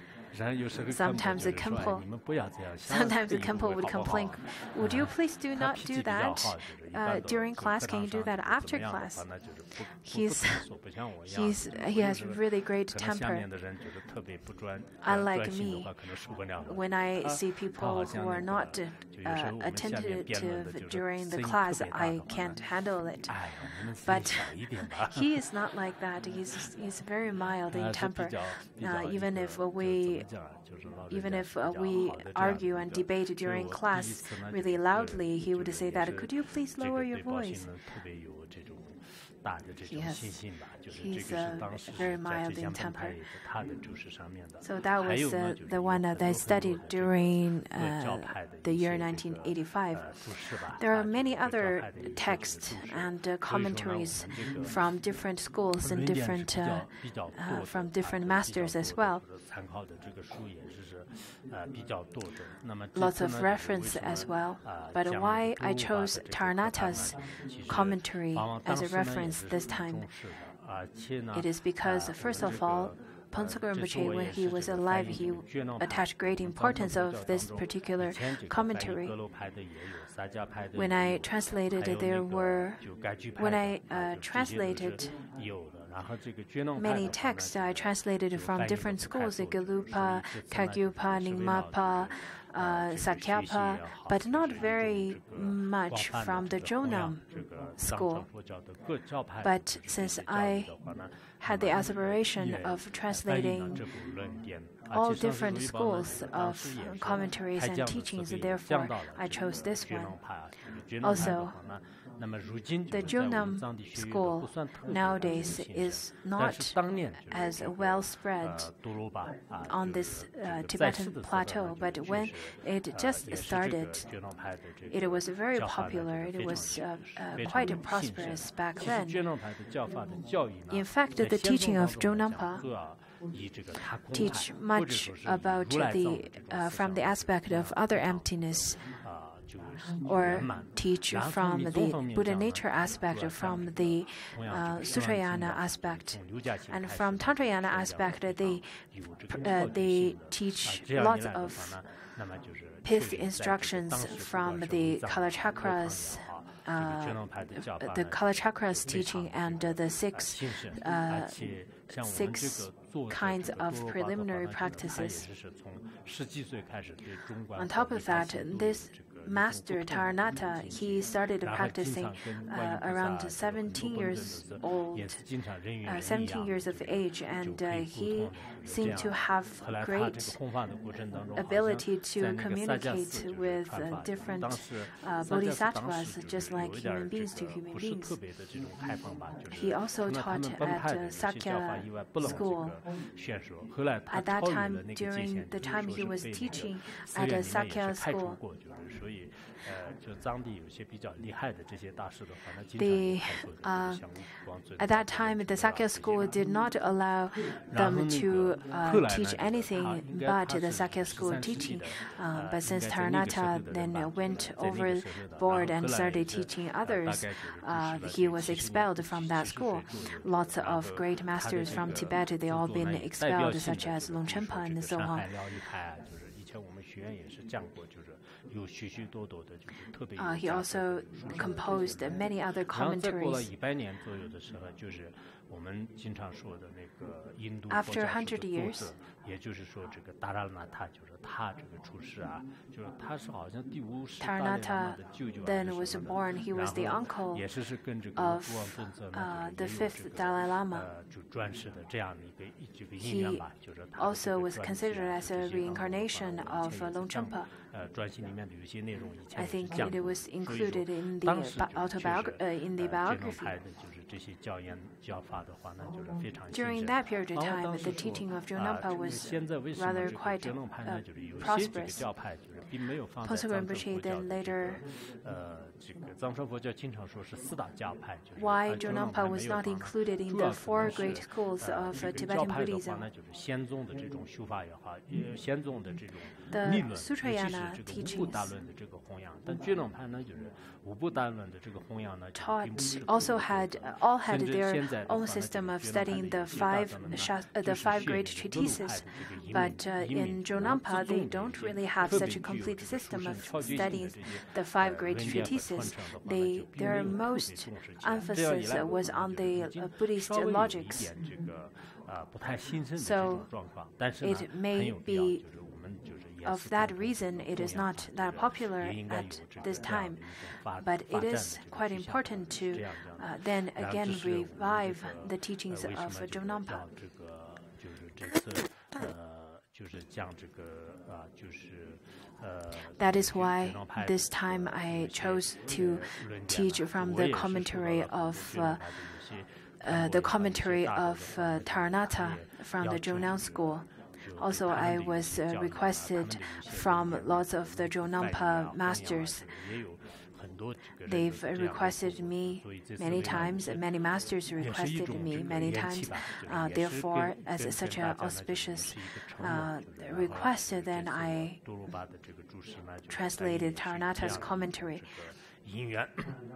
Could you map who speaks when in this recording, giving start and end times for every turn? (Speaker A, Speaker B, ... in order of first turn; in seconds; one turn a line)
Speaker A: 0.3-22.6
Speaker B: 0.8-2.1
Speaker B: 2.8-9.3
Speaker B: 10.0-10.7
Speaker B: 11.2-13.5
Speaker B: 15.0-15.9
Speaker B: 16.7-30.2
Speaker A: 23.3-25.4
Speaker A: 27.7-49.4
Speaker B: 31.1-37.7
Speaker B: 39.9-43.2
Speaker B: 44.6-59.2
Speaker A: 49.9-54.7
Speaker A: 55.8-72.9
Speaker B: 63.0-70.1
Speaker B: 71.3-79.2
Speaker A: 73.6-81.2
Speaker B: 80.8-82.8
Speaker A: 81.8-87.8
Speaker B: 83.4-85.1
Speaker B: 86.8-97.2
Speaker A: 88.4-138.2
Speaker B: 97.8-98.3
Speaker B: 99.4-100.7
Speaker B: 101.4-103.9
Speaker B: 104.9-110.2
Speaker B: 111.0-111.5
Speaker B: 112.9-118.7
Speaker B: 119.7-124.1
Speaker B: 124.9-129.3
Speaker B: 130.7-132.7
Speaker B: 134.1-138.8
Speaker A: 138.7-158.2
Speaker B: 140.0-146.2
Speaker B: 146.7-151.8
Speaker B: 152.8-161.4
Speaker A: 159.0-206.3
Speaker B: 161.9-165.3
Speaker B: 167.6-175.2
Speaker B: 175.8-180.4
Speaker B: 181.4-188.2
Speaker B: 189.5-192.8
Speaker B: 194.1-198.4
Speaker B: 202.8-204.0
Speaker B: 204.8-225.4
Speaker A: 207.7-343.6
Speaker B: 230.2-233.5
Speaker B: 237.7-238.9
Speaker B: 244.2-247.5
Speaker B: 248.2-250.9
Speaker B: 253.0-253.4
Speaker B: 254.0-257.5
Speaker B: 259.4-263.5
Speaker B: 266.5-272.1
Speaker B: 273.2-274.8
Speaker B: 278.4-283.1
Speaker B: 286.5-288.6
Speaker B: 292.4-311.1
Speaker B: 313.0-313.5
Speaker B: 314.2-315.4
Speaker B: 316.4-320.2
Speaker B: 320.8-326.9
Speaker B: 332.9-339.0
Speaker B: 339.8-343.9
Speaker A: 344.2-353.8
Speaker B: 344.4-349.5
Speaker B: 351.1-361.6
Speaker A: 354.6-366.4
Speaker B: 363.1-365.1